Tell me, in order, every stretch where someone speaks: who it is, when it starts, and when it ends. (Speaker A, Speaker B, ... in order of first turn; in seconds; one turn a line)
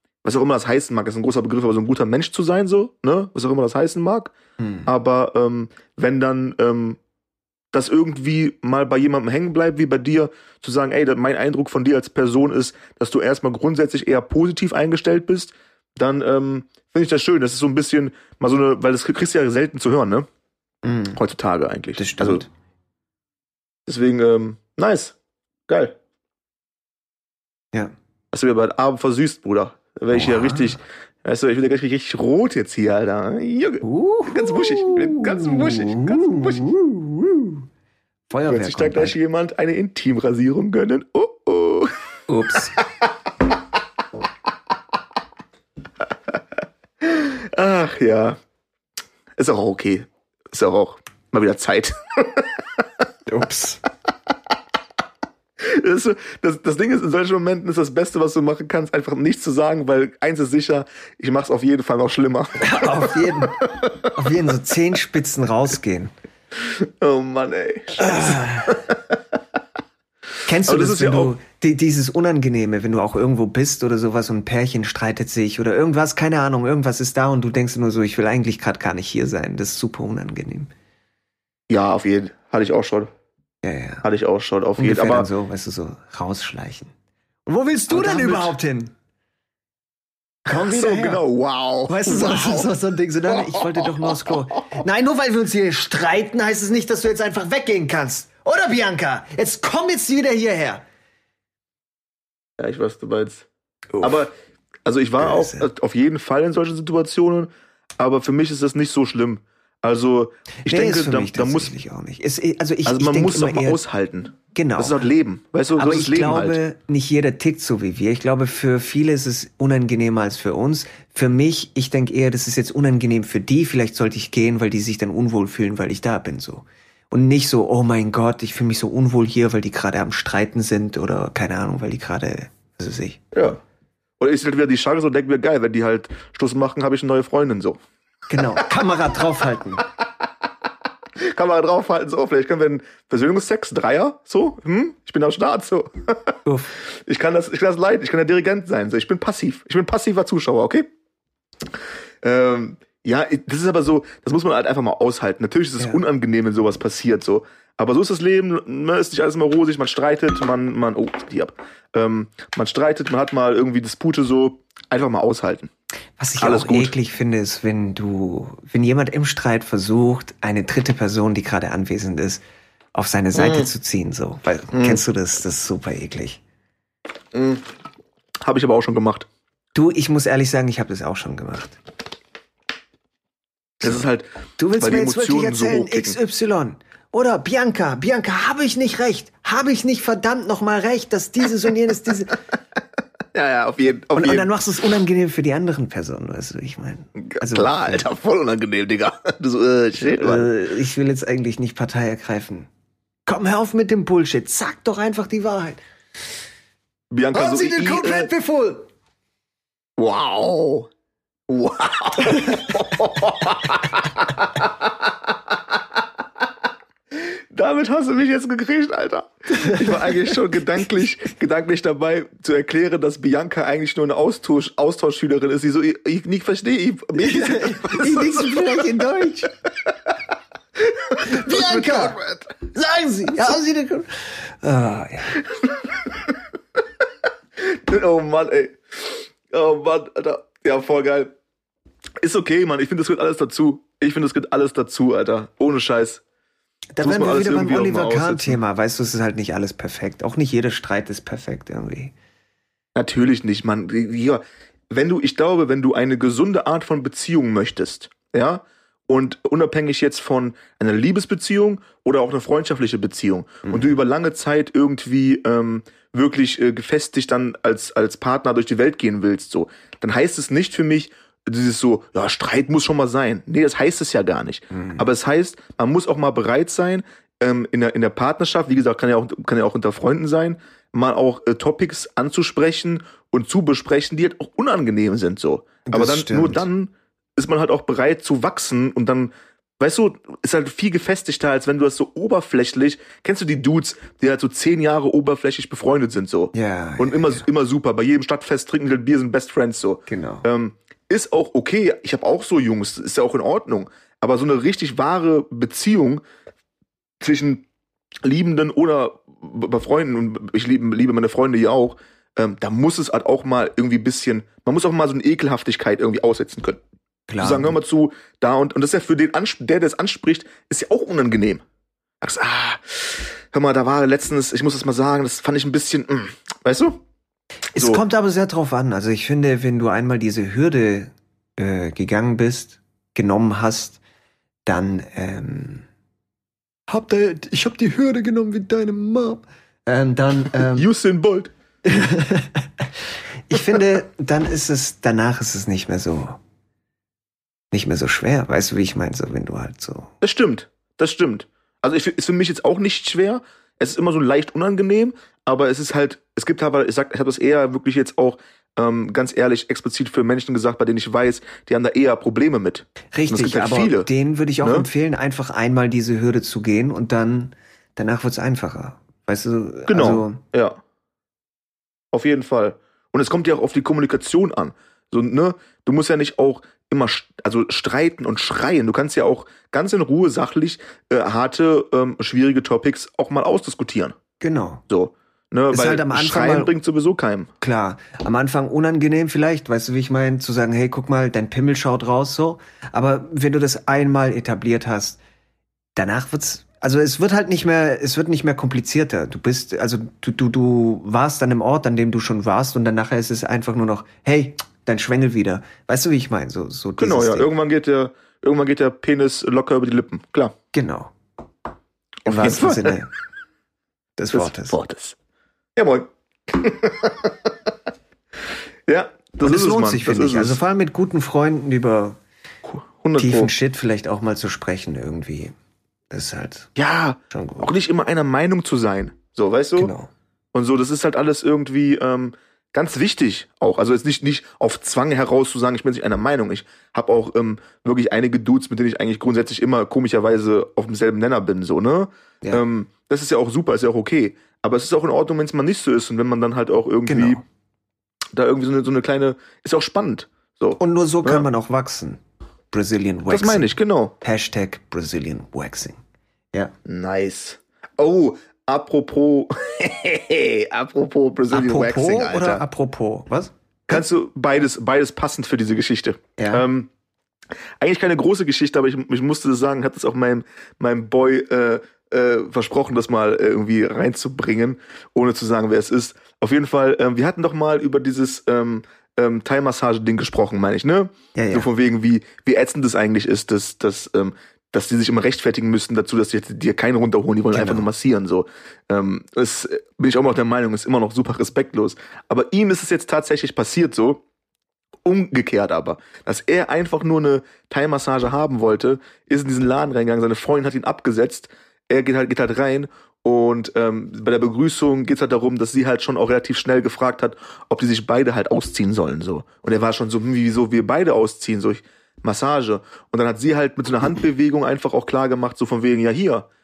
Speaker A: 0.2-4.3
Speaker B: 4.6-4.8
Speaker A: 4.8-7.0
Speaker A: 7.7-20.3
Speaker B: 20.8-21.2
Speaker A: 21.1-22.4
Speaker B: 22.0-22.5
Speaker A: 23.9-25.1
Speaker A: 25.7-25.9
Speaker A: 28.3-36.9
Speaker B: 30.1-30.8
Speaker B: 33.8-37.6
Speaker B: 38.3-39.1
Speaker A: 38.5-41.9
Speaker B: 42.3-42.8
Speaker A: 42.8-43.1
Speaker A: 47.0-48.4
Speaker A: 49.4-52.8
Speaker B: 53.3-53.8
Speaker A: 55.6-64.1
Speaker B: 62.6-66.1
Speaker A: 66.5-69.2
Speaker B: 68.0-68.7
Speaker B: 70.4-80.7
Speaker A: 70.7-71.3
Speaker A: 81.7-83.1
Speaker B: 83.6-84.0
Speaker A: 84.0-85.3
Speaker B: 84.8-86.9
Speaker B: 87.5-88.9
Speaker A: 87.9-88.5
Speaker B: 90.5-91.2
Speaker A: 90.5-92.7
Speaker B: 91.9-100.8
Speaker A: 93.3-94.3
Speaker A: 102.6-103.5
Speaker B: 103.9-104.2
Speaker A: 104.0-104.3
Speaker A: 104.8-111.7
Speaker B: 105.2-105.7
Speaker B: 110.7-113.8
Speaker A: 112.8-116.6
Speaker B: 114.5-115.0
Speaker B: 115.8-133.2
Speaker A: 133.3-133.6
Speaker A: 134.2-137.8
Speaker B: 138.3-139.9
Speaker A: 141.2-146.3
Speaker B: 146.4-146.7
Speaker A: 146.9-150.9
Speaker A: 152.2-165.7
Speaker B: 166.2-172.4
Speaker A: 166.4-166.9
Speaker B: 172.9-176.4
Speaker A: 173.3-173.7
Speaker A: 174.7-175.0
Speaker A: 177.3-177.6
Speaker A: 178.4-179.3
Speaker B: 179.7-181.8
Speaker A: 183.8-184.3
Speaker B: 184.6-192.4
Speaker A: 184.8-186.2
Speaker A: 193.3-194.5
Speaker B: 194.1-198.1
Speaker A: 197.2-200.5
Speaker B: 200.0-202.7
Speaker B: 203.3-205.8
Speaker A: 207.1-208.3
Speaker B: 207.3-208.9
Speaker A: 210.0-210.9
Speaker A: 211.5-216.0
Speaker A: 217.1-228.9
Speaker B: 219.5-220.4
Speaker B: 227.1-229.5
Speaker A: 229.7-230.1
Speaker A: 230.8-232.5
Speaker B: 231.2-235.4
Speaker A: 235.4-236.4
Speaker A: 237.6-241.3
Speaker A: 242.2-246.2
Speaker B: 247.0-252.1
Speaker A: 247.0-248.6
Speaker A: 252.9-306.2
Speaker B: 263.6-263.9
Speaker B: 274.7-275.1
Speaker B: 285.8-286.6
Speaker B: 296.5-297.4
Speaker B: 300.1-300.4
Speaker A: 307.2-307.6
Speaker A: 308.2-316.8
Speaker B: 317.3-317.8
Speaker A: 317.4-321.6
Speaker A: 322.2-327.0
Speaker B: 327.7-334.0
Speaker A: 327.8-328.0
Speaker B: 334.7-335.9
Speaker B: 336.9-340.9
Speaker A: 340.6-341.5
Speaker B: 341.8-342.9
Speaker B: 343.4-346.4
Speaker B: 347.7-350.1
Speaker A: 350.2-364.1
Speaker B: 363.1-370.4
Speaker A: 364.6-364.9
Speaker A: 369.9-370.8
Speaker A: 372.1-384.1
Speaker B: 384.4-384.8
Speaker A: 384.9-387.5
Speaker B: 385.7-386.7
Speaker B: 387.6-395.2
Speaker B: 395.9-407.5
Speaker A: 407.0-410.5
Speaker B: 410.7-411.1
Speaker A: 412.2-413.0
Speaker B: 412.2-413.1
Speaker B: 414.2-414.8
Speaker A: 414.3-415.2
Speaker A: 415.8-417.7
Speaker A: 418.9-420.6
Speaker B: 419.4-422.2
Speaker A: 422.6-423.5
Speaker B: 423.2-425.5
Speaker B: 426.1-426.8
Speaker A: 426.8-429.9
Speaker B: 427.3-427.7
Speaker B: 429.8-430.1
Speaker A: 430.5-447.4
Speaker B: 447.1-447.4
Speaker A: 448.3-451.4
Speaker B: 450.8-452.2
Speaker B: 452.7-456.0
Speaker A: 453.3-454.1
Speaker A: 456.9-462.6
Speaker B: 461.5-464.0
Speaker A: 463.9-466.9
Speaker B: 466.4-466.6
Speaker A: 467.8-494.2
Speaker B: 481.3-481.7
Speaker B: 487.5-487.9
Speaker A: 495.0-516.5